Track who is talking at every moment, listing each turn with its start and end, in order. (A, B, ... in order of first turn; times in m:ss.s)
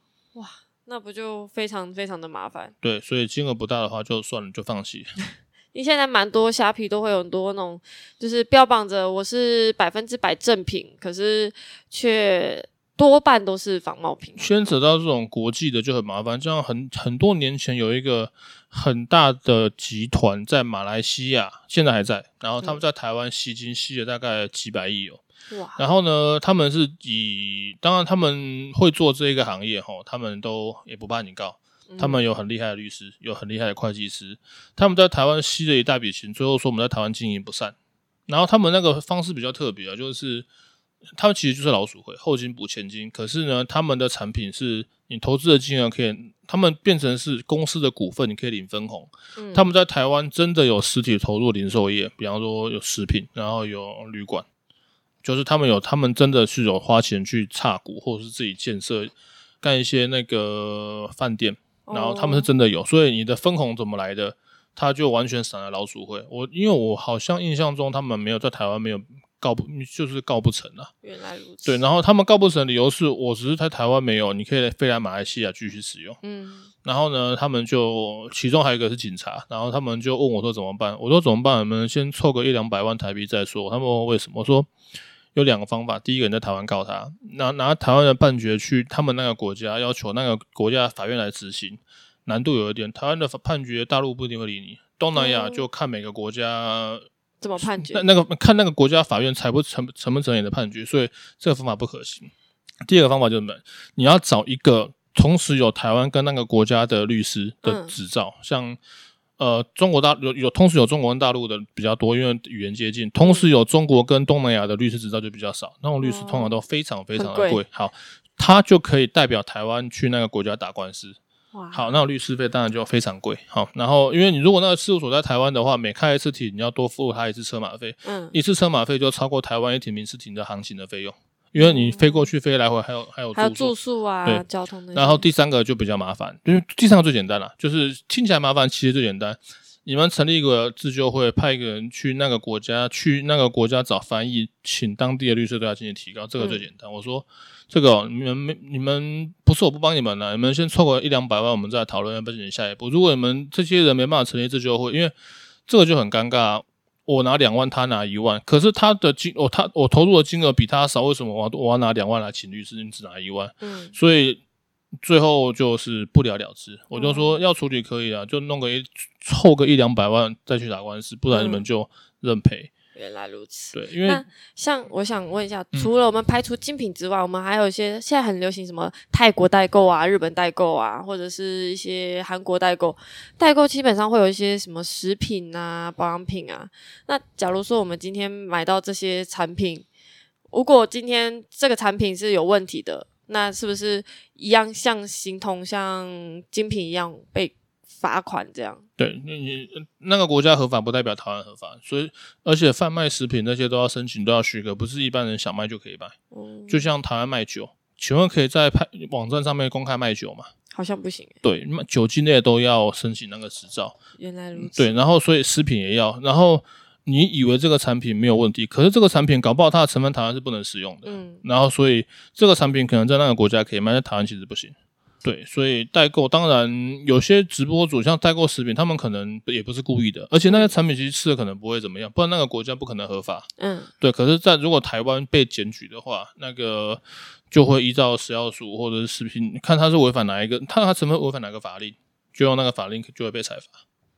0:00.3-0:02.7 A
0:02.8-0:05.2 B
0:05.7-0:14.5 A
0:14.4-0:25.2 B
0:25.5-0:25.8 A
0:25.8-0:37.7 B
0:31.9-0:32.2 A
0:38.3-0:40.4 B
0:41.2-0:54.4 B
0:49.4-0:49.6 A
0:55.2-1:10.9 B
1:01.9-1:02.5 A
1:11.0-1:11.8 A
1:11.6-1:16.2 B
1:16.2-1:16.7 A
1:16.8-1:24.7 B
1:25.3-1:37.0 B
1:35.2-1:35.6 A
1:37.4-1:38.0 A
1:37.6-1:42.3 B
1:42.8-1:48.8 B
1:47.6-1:47.9 A
1:49.4-2:01.2 B
1:53.2-1:53.5 A
1:56.0-1:56.6 A
1:57.1-1:57.6 A
2:01.5-2:01.9 A
2:01.7-2:35.1 B
2:08.0-2:08.4 A
2:11.6-2:12.3 A
2:13.3-2:15.3 A
2:26.4-2:26.6 A
2:35.7-2:44.4 B
2:43.6-2:43.9 A
2:45.0-2:52.7 B
2:46.9-2:47.4 A
2:51.3-2:51.6 A
2:52.9-3:09.8 A
2:53.7-2:54.2 B
3:10.5-3:18.8 A
3:19.0-3:26.1 B
3:26.3-3:26.9 A
3:26.7-3:30.5 B
3:30.7-3:31.3 A
3:31.4-3:34.0 B
3:34.2-3:34.9 A
3:34.6-3:53.5 B
3:41.0-3:41.4 A
3:50.4-3:50.7 A
3:53.6-3:53.9 A
3:54.0-4:03.7 B